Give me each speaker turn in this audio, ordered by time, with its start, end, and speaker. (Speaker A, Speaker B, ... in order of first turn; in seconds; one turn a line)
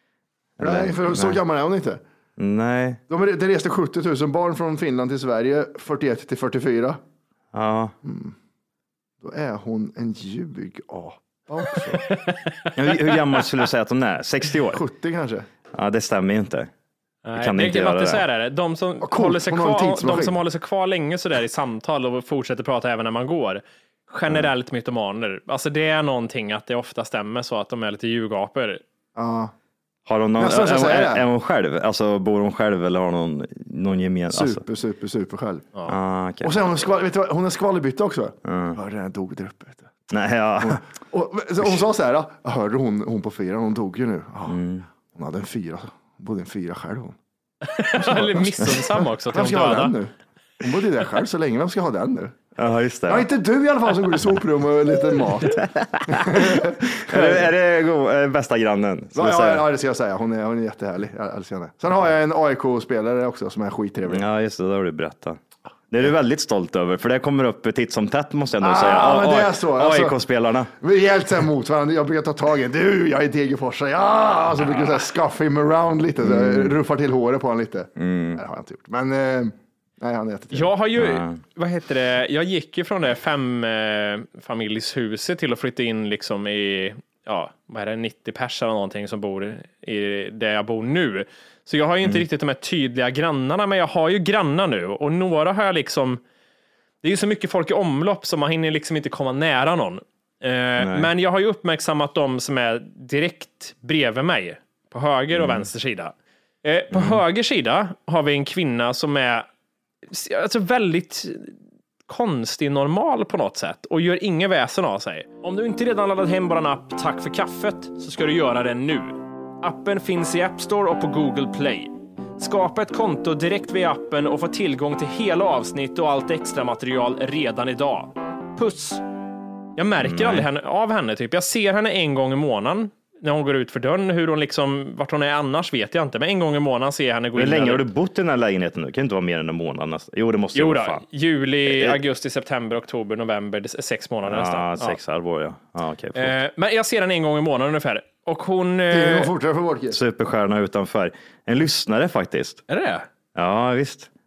Speaker A: 0.6-1.4
Speaker B: 0.6-2.0
Speaker A: 2.4-3.0
Speaker B: 3.1-7.0
Speaker A: 7.5-7.9
Speaker B: 8.0-8.3
Speaker B: 9.2-12.0
Speaker C: 11.9-13.4
Speaker A: 12.8-14.8
Speaker B: 14.7-15.5
Speaker A: 15.7-16.7
Speaker C: 17.2-28.8
Speaker A: 17.4-18.2
Speaker B: 19.0-20.4
Speaker B: 29.1-29.5
Speaker A: 30.1-34.6
Speaker B: 30.4-31.2
Speaker B: 34.3-35.7
Speaker A: 35.9-36.6
Speaker B: 36.4-39.9
Speaker A: 38.5-38.8
Speaker A: 40.1-40.8
Speaker B: 40.6-47.2
Speaker A: 44.5-44.9
Speaker C: 47.6-50.0
Speaker B: 48.0-52.4
Speaker A: 52.6-53.2
Speaker B: 53.1-57.5
Speaker A: 55.6-59.6
Speaker B: 59.1-64.2
Speaker A: 64.1-65.4
Speaker A: 65.9-70.7
Speaker B: 68.6-70.2
Speaker B: 70.7-80.7
Speaker A: 76.2-76.7
Speaker A: 78.0-78.4
Speaker C: 80.5-96.2
Speaker A: 81.0-81.4
Speaker C: 97.0-109.5
Speaker A: 100.8-101.1
Speaker A: 105.3-105.7
Speaker A: 106.9-107.2
Speaker C: 110.1-111.5
Speaker C: 112.1-129.0
Speaker C: 129.8-137.8
Speaker A: 130.0-130.5
Speaker A: 137.3-141.0
Speaker C: 140.5-145.0
Speaker A: 141.6-142.0
Speaker A: 144.2-146.3
Speaker C: 146.2-149.3
Speaker B: 148.9-150.0
Speaker A: 149.9-152.6
Speaker C: 152.7-153.1
Speaker A: 153.3-154.1